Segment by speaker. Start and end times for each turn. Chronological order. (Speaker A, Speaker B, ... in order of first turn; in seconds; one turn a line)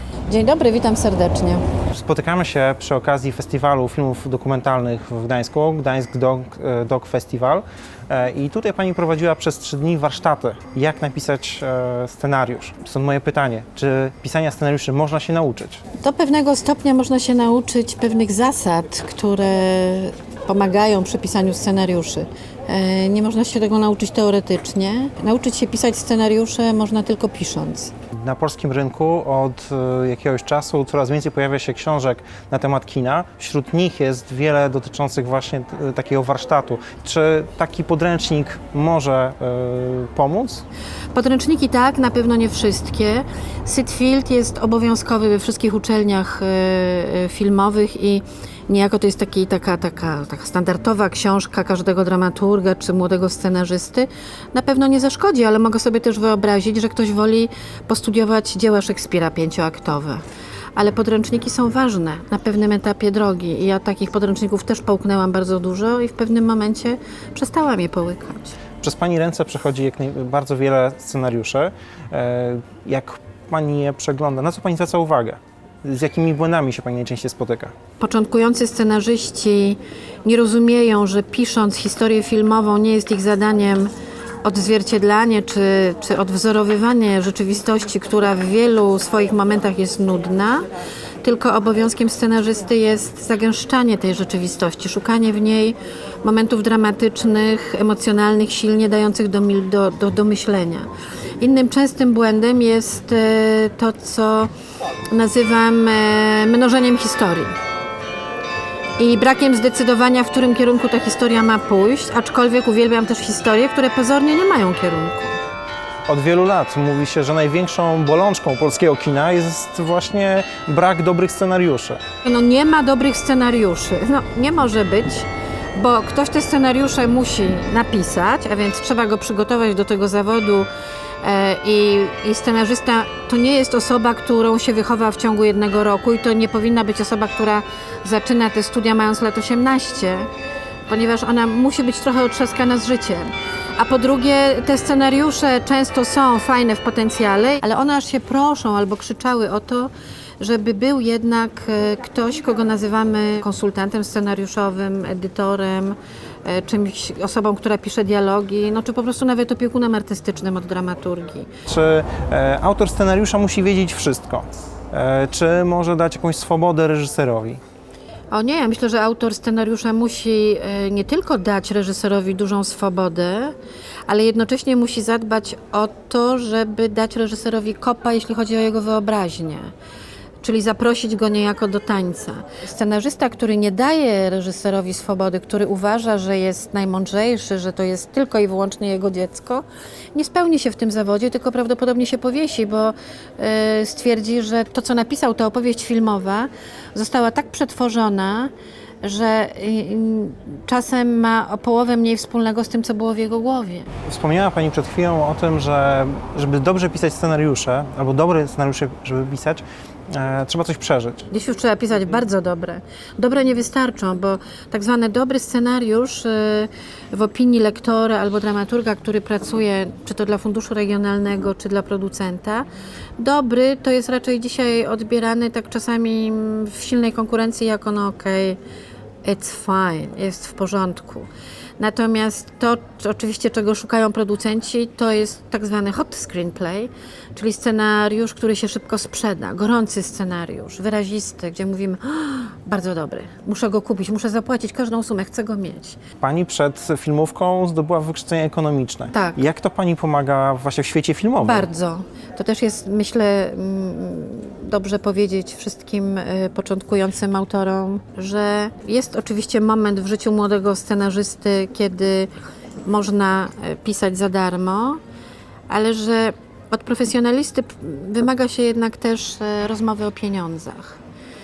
Speaker A: 0.3-1.6
Speaker B: 1.9-15.8
Speaker A: 16.0-27.9
Speaker B: 28.2-40.6
Speaker A: 41.1-60.2
Speaker A: 60.8-68.6
Speaker B: 68.8-77.7
Speaker A: 78.0-83.9
Speaker A: 84.4-90.7
Speaker A: 91.2-104.5
Speaker A: 105.1-107.6
Speaker A: 109.0-115.4
Speaker B: 116.1-122.0
Speaker A: 122.2-130.7
Speaker A: 131.2-140.3
Speaker A: 140.9-161.5
Speaker B: 161.7-167.6
Speaker A: 168.3-173.6
Speaker A: 174.1-179.7
Speaker A: 180.4-198.5
Speaker A: 199.0-203.9
Speaker B: 204.1-211.2
Speaker A: 211.3-222.7
Speaker A: 223.2-228.6
Speaker A: 229.2-246.0
Speaker B: 246.2-251.7
Speaker A: 249.1-249.4
Speaker A: 251.4-262.3
Speaker A: 262.9-265.0
Speaker A: 265.7-271.0